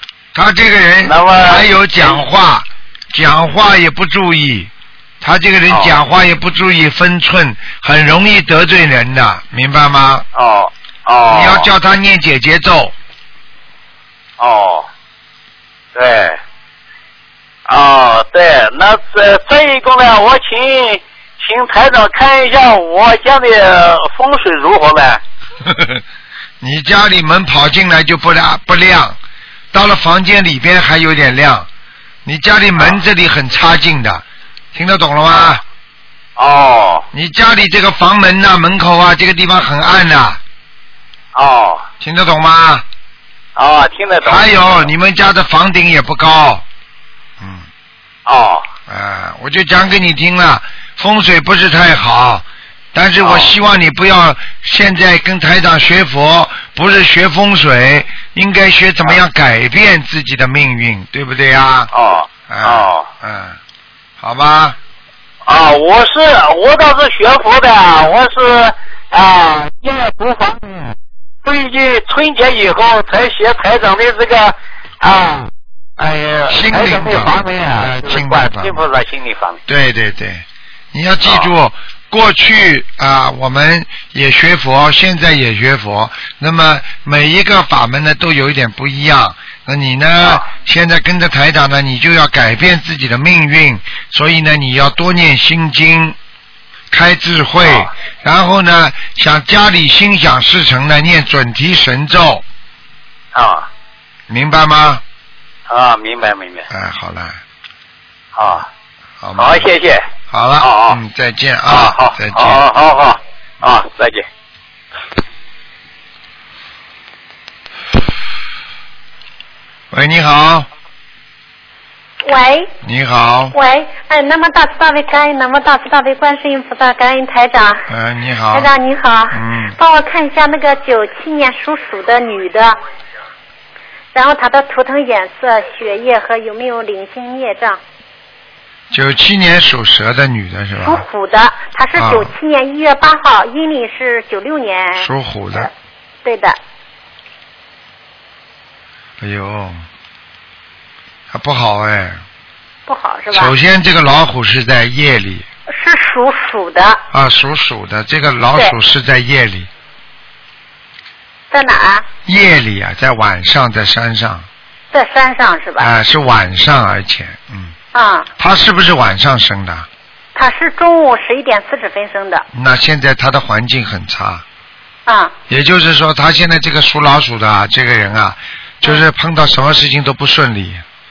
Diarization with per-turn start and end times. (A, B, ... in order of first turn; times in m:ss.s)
0:00.3-0:10.3 A
0:01.0-0:02.2 B
0:05.7-0:06.0 B
0:10.3-0:11.7 B
0:11.3-0:13.0 A
0:14.4-0:14.9 B
0:16.0-0:16.4 B
0:17.7-0:25.2 B
0:25.6-0:26.0 A
0:26.6-0:29.2 A
0:29.7-0:31.7 A
0:32.2-0:35.6 A
0:36.4-0:37.1 B
0:37.1-0:40.4 A
0:41.3-0:41.9 B
0:42.0-0:42.8 A
0:43.6-0:44.9 B
0:44.2-0:46.6 A
0:47.4-0:47.7 A
0:48.3-0:48.7 B
0:48.9-1:01.9 A
0:53.2-0:53.5 B
1:01.9-1:03.1 B
1:02.5-1:03.6 A
1:04.2-1:04.8 A
1:05.4-1:19.6 B
1:16.5-1:17.5 A
1:18.0-1:18.8 A
1:19.7-1:36.2 A
1:30.2-1:30.5 B
1:36.9-1:42.4 A
1:37.6-1:37.9 B
1:43.3-1:43.7 B
1:44.3-1:45.0 A
1:45.7-1:46.7 B
1:46.7-1:47.4 A
1:48.4-1:48.7 B
1:49.2-1:49.7 A
1:49.4-1:50.1 B
1:50.3-1:52.6 A
1:50.6-1:51.0 B
1:51.7-1:54.2 B
1:59.9-2:00.7 A
2:02.2-2:02.7 C
2:02.8-2:03.6 A
2:03.5-2:07.9 C
2:07.9-2:08.7 A
2:08.5-2:12.8 C
2:09.3-2:09.8 A
2:14.1-2:17.8 C
2:18.9-2:21.0 A
2:20.8-2:25.7 C
2:22.0-2:22.3 A
2:25.0-2:25.7 A
2:26.2-2:26.6 C
2:29.2-2:29.9 A
2:31.3-2:32.2 A
2:32.9-2:33.5 C
2:33.3-2:35.5 A
2:35.7-2:37.0 C
2:37.1-2:39.7 A
2:41.5-2:42.1 C
2:42.3-2:44.5 A
2:44.9-2:45.9 C
2:45.8-2:47.8 A
2:47.9-2:48.3 C
2:48.4-2:49.9 A
2:50.4-2:52.5 C
2:52.5-2:54.4 A
2:55.1-2:55.4 C
2:55.5-3:00.8 A